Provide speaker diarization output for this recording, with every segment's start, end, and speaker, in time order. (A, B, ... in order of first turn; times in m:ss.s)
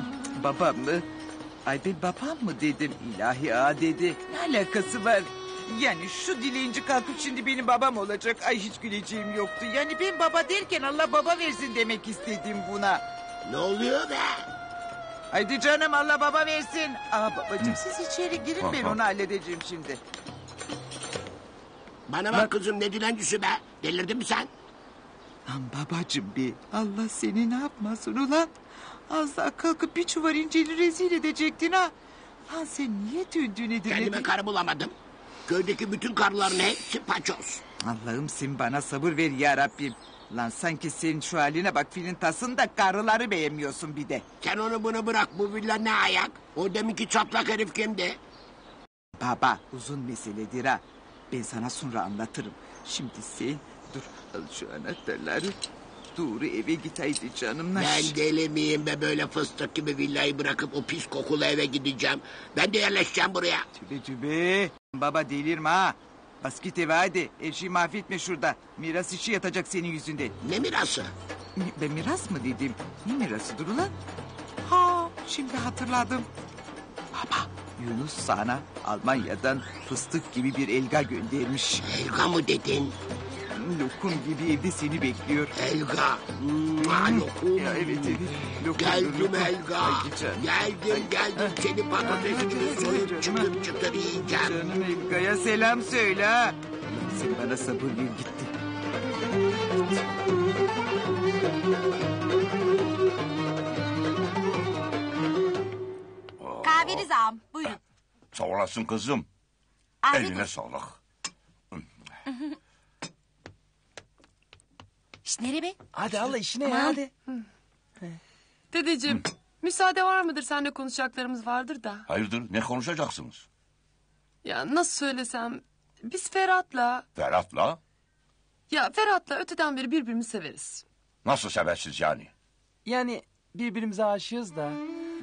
0:00.3-0:01.1 A
0:01.6-0:13.0 A
0:13.4-0:14.4 B
0:15.3-0:20.0 A
0:18.6-0:19.0 C
0:22.1-0:24.5 B
0:25.4-0:28.6 A
0:29.1-0:31.9 A
0:32.5-0:34.3 A
0:33.9-0:34.9 B
0:35.5-0:37.6 B
0:37.8-0:44.2 A
0:44.4-0:48.2 B
0:49.2-0:55.6 A
0:56.1-0:58.2 A
0:57.7-1:03.6 B
1:03.7-1:10.3 A
1:10.4-1:11.1 B
1:11.6-1:13.9 A
1:14.6-1:16.3 A
1:17.1-1:21.9 A
1:21.8-1:22.9 B
1:23.5-1:25.5 A
1:25.6-1:28.2 B
1:26.8-1:33.5 A
1:28.7-1:34.5 B
1:34.4-1:38.5 A
1:46.4-1:47.1 C
1:46.6-1:47.8 D
1:48.3-1:49.2 C
1:50.0-1:50.4 D
1:50.1-1:51.0 C
1:55.2-1:55.8 D
1:55.9-1:57.1 E
1:56.7-1:57.0 D
1:56.8-1:57.4 F
1:58.7-2:02.0 F
2:02.1-2:03.4 C
2:04.4-2:07.0 F
2:07.2-2:07.8 C
2:08.7-2:10.8 F
2:11.2-2:12.3 C
2:12.8-2:14.8 E